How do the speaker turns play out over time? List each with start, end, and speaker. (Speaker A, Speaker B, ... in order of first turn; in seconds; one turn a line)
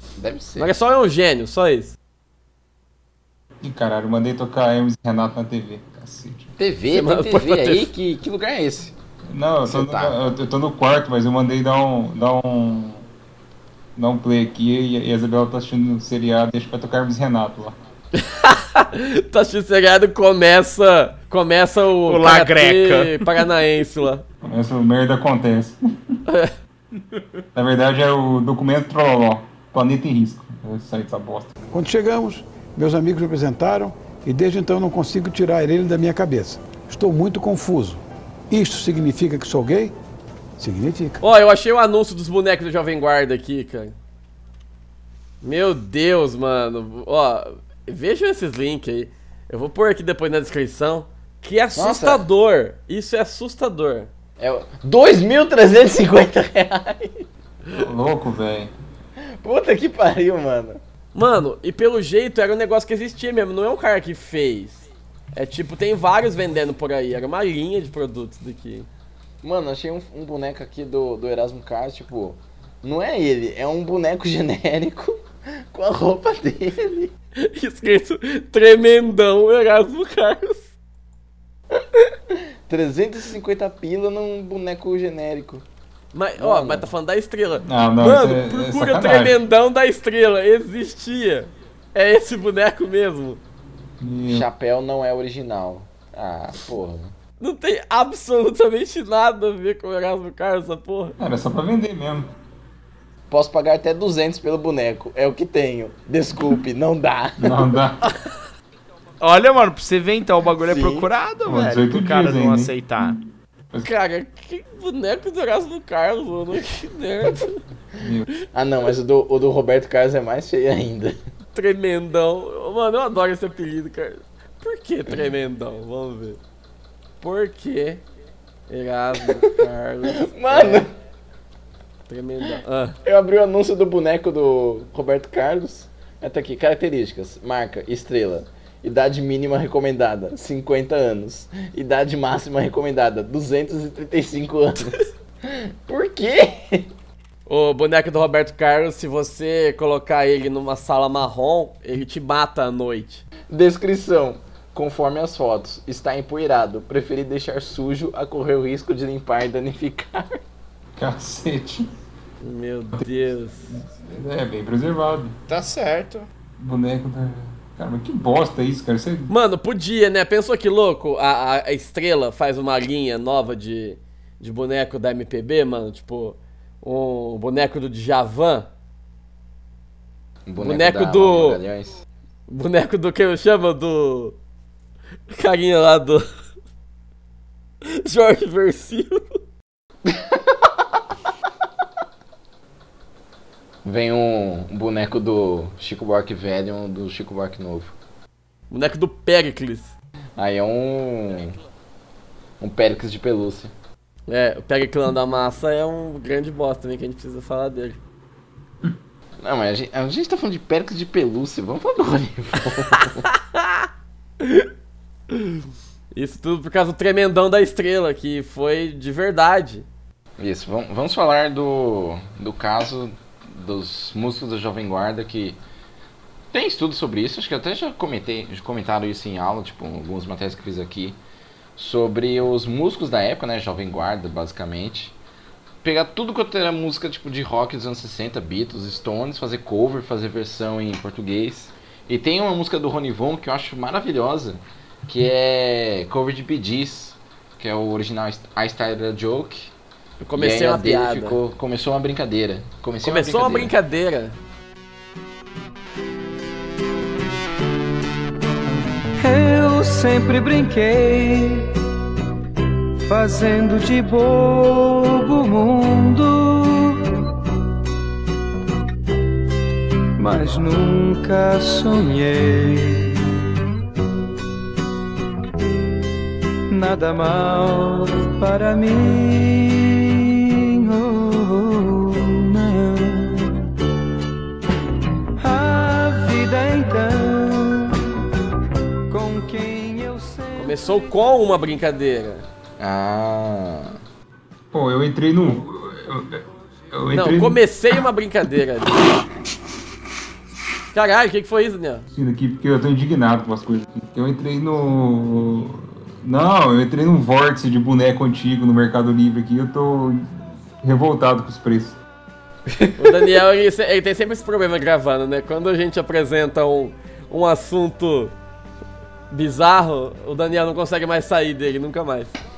Speaker A: 0.2-0.7
Speaker B: 0.6-2.0
Speaker C: 3.6-6.5
Speaker A: 6.6-8.9
Speaker B: 6.9-7.9
Speaker C: 9.3-13.0
Speaker A: 9.7-10.1
Speaker C: 13.9-17.8
Speaker B: 18.1-24.2
Speaker D: 22.1-23.4
Speaker C: 24.4-26.1
Speaker B: 26.3-26.5
Speaker C: 27.5-31.5
Speaker E: 31.7-39.9
Speaker E: 40.6-41.2
Speaker B: 41.2-43.9
Speaker B: 45.4-54.1
Speaker A: 51.7-52.2
Speaker A: 54.4-57.2
Speaker C: 57.8-58.7
Speaker A: 59.2-60.8
Speaker B: 61.1-68.9
Speaker A: 69.4-77.1
Speaker B: 77.4-80.7
Speaker A: 81.8-85.6
Speaker B: 86.1-93.4
Speaker A: 86.4-86.9
Speaker C: 87.6-89.4
Speaker C: 94.0-94.5
Speaker A: 94.2-97.1
Speaker B: 97.4-101.2
Speaker C: 101.2-102.3
Speaker A: 103.3-107.7
Speaker C: 107.4-108.1
Speaker D: 109.2-113.2
Speaker A: 110.6-111.1
Speaker C: 111.4-113.2
Speaker B: 113.8-117.6
Speaker C: 118.0-118.3
Speaker A: 118.5-121.2
Speaker B: 121.5-126.4
Speaker B: 127.2-128.0
Speaker B: 128.7-130.9
Speaker A: 130.0-130.9
Speaker B: 132.1-133.0
Speaker A: 133.0-146.9
Speaker B: 147.5-153.2
Speaker A: 153.5-160.4
Speaker C: 160.9-161.9
Speaker B: 162.4-163.7
Speaker C: 163.7-165.3
Speaker D: 165.5-166.3
Speaker C: 166.6-169.3
Speaker B: 169.3-178.7
Speaker A: 180.4-182.0
Speaker B: 180.6-181.6
Speaker B: 182.5-184.3
Speaker B: 185.3-186.2
Speaker B: 187.8-189.4
Speaker A: 190.1-190.5
Speaker A: 193.8-197.9
Speaker B: 198.7-199.9
Speaker A: 200.4-201.6
Speaker A: 202.6-203.7
Speaker B: 204.3-208.0
Speaker A: 209.4-213.3
Speaker B: 213.2-213.9
Speaker B: 214.4-214.7
Speaker B: 215.3-215.6
Speaker B: 216.1-219.8
Speaker A: 220.4-225.6
Speaker A: 226.5-231.2
Speaker A: 231.8-235.2
Speaker A: 235.8-249.7
Speaker B: 250.2-251.4
Speaker A: 250.3-253.7
Speaker B: 253.0-254.4
Speaker F: 259.2-261.7
Speaker F: 263.0-267.1
Speaker F: 270.2-273.2
Speaker F: 276.7-283.7
Speaker F: 285.4-288.1
Speaker F: 289.1-290.8
Speaker B: 290.6-292.4
Speaker A: 292.8-294.0
Speaker C: 294.7-297.6
Speaker B: 297.1-299.0
Speaker B: 300.9-302.1
Speaker C: 302.1-312.0
Speaker A: 312.7-313.2
Speaker B: 313.0-318.3
Speaker B: 319.3-322.4